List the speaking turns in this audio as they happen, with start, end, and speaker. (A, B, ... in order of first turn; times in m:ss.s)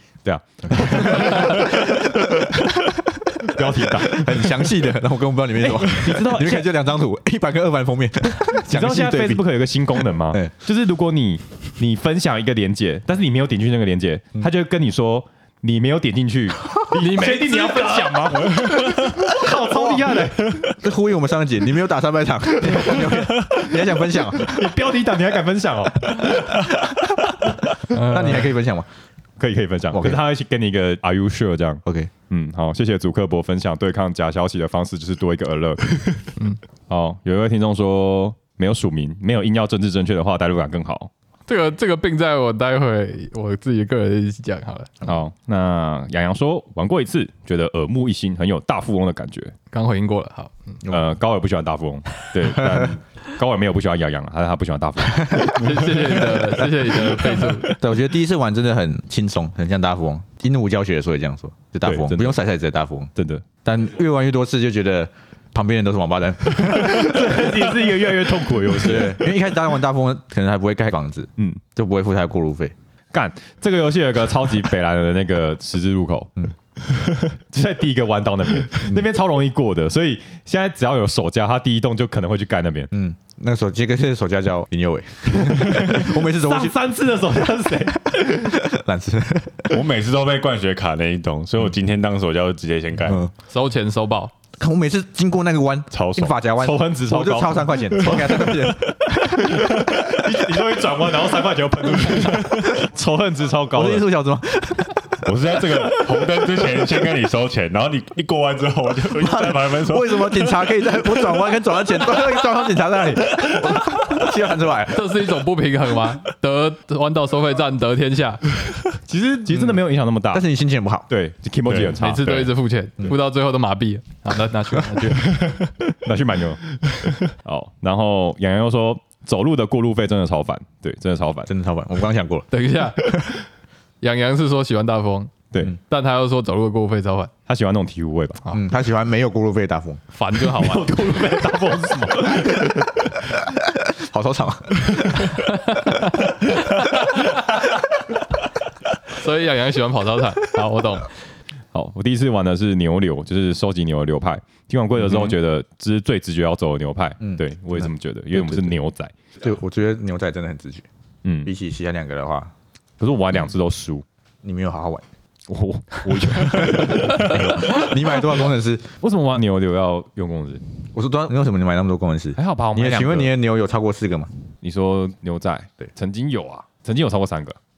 0:00.2-0:02.6 A
0:00.7-0:09.4 B
0:03.4-0:04.7 A
0:05.6-0:06.7 A
0:08.4-0:20.8 A
0:16.9-0:18.8 C
0:19.5-0:24.8 B
0:22.6-0:26.7 A
0:26.3-0:28.9 B
0:27.9-0:28.5 C
0:29.4-0:36.2 A
0:29.9-0:30.2 B
0:31.8-0:32.1 B
0:36.9-0:41.1 A
0:41.5-0:45.0 C
0:45.0-0:49.5 A
0:49.7-0:50.8 C
0:50.9-0:55.6 A
0:52.6-0:52.9 B
0:55.1-1:03.1 B
0:55.3-0:57.8 C
1:01.8-1:02.4 A
1:03.2-1:03.5 A
1:03.6-1:07.6 B
1:06.5-1:09.3 A
1:08.7-1:12.8 B
1:13.1-1:16.5 A
1:17.1-1:22.9 A
1:18.8-1:19.1 B
1:22.9-1:26.8 B
1:25.3-1:28.7 A
1:28.4-1:29.8 B
1:29.7-1:33.3 D
1:33.1-1:33.3 B
1:33.5-1:34.3 C
1:34.6-1:40.1 B
1:35.9-1:36.4 D
1:36.6-1:38.4 A
1:39.4-1:44.1 A
1:43.7-1:45.3 B
1:45.2-1:51.1 D
1:49.1-1:55.3 B
1:54.9-1:58.4 C
1:59.1-2:00.4 A
2:00.3-2:01.1 B
2:01.1-2:02.5 A
2:01.7-2:02.0 D
2:02.0-2:05.4 C
2:05.3-2:11.5 A
2:11.5-2:12.5 B
2:12.5-2:13.0 C
2:13.0-2:13.3 B
2:14.0-2:17.3 C
2:15.5-2:15.8 A
2:17.5-2:18.4 A
2:18.5-2:20.0 B
2:20.1-2:20.9 C
2:20.5-2:23.4 A
2:23.6-2:25.4 B
2:25.7-2:26.0 C
2:29.1-2:31.1 C
2:31.7-2:39.1 A
2:35.0-2:35.4 B
2:37.2-2:38.7 B
2:39.4-2:40.9 B
2:41.2-2:41.5 A
2:41.4-2:42.5 B
2:43.0-2:44.0 A
2:44.4-2:45.1 B
2:45.5-2:47.9 A
2:46.1-2:48.9 B
2:49.0-2:50.6 A
2:50.9-2:54.3 B
2:52.4-2:53.3 A
2:54.6-2:57.6 A